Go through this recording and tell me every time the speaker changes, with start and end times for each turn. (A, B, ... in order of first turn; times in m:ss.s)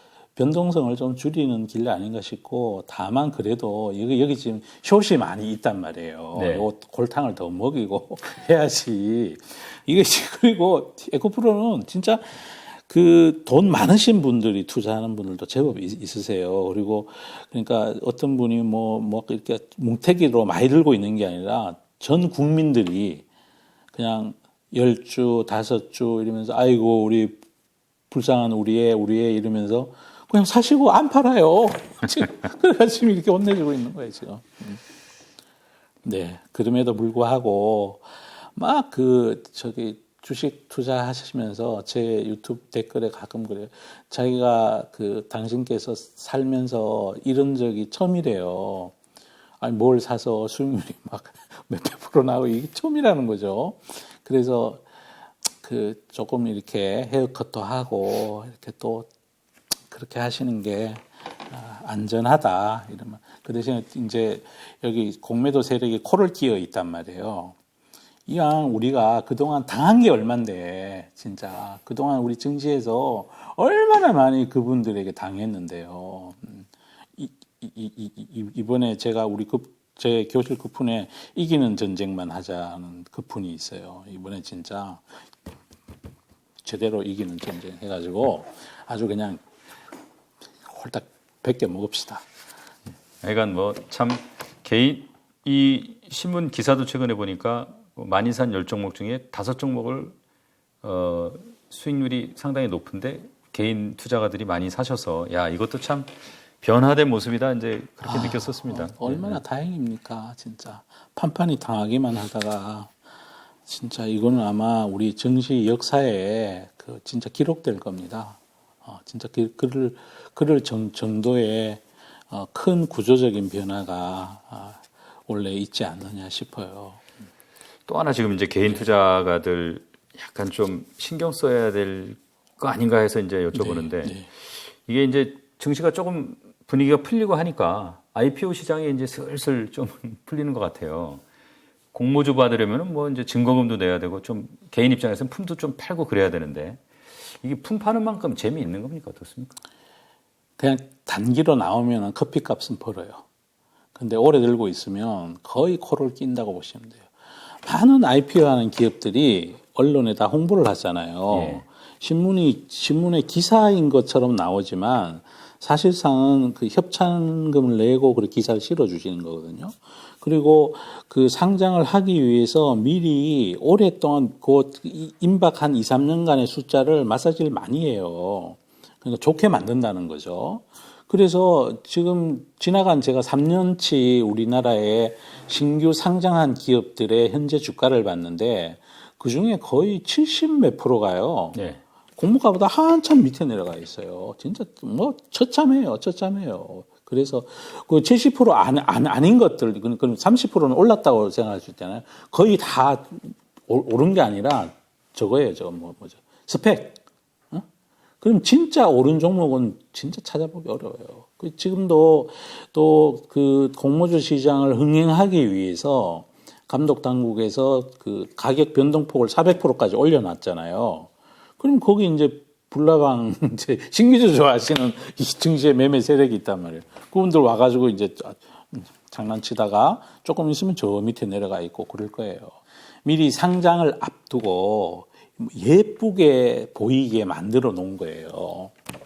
0:00.4-0:23.2 A
0:06.3-0:06.7 B
0:23.9-0:27.4 A
0:28.1-0:34.8 A
0:36.0-0:48.9 A
0:49.6-0:54.8 A
0:55.6-0:59.1 A
0:59.9-1:07.6 A
1:08.3-1:25.0 A
1:26.6-1:29.4 A
1:30.6-1:32.2 A
1:33.2-1:40.1 B
1:40.8-1:49.4 B
1:48.0-1:52.9 A
1:53.6-2:07.0 A
2:07.9-2:14.2 B
2:13.5-2:14.3 A
2:14.8-2:21.2 B
2:21.9-2:26.8 B
2:27.3-2:29.5 B
2:30.6-2:33.2 A
2:33.9-2:37.1 A
2:37.6-3:11.6 A
2:41.3-2:41.6 B
3:11.5-3:11.8 B
3:12.2-3:27.0 A
3:28.2-3:58.7 A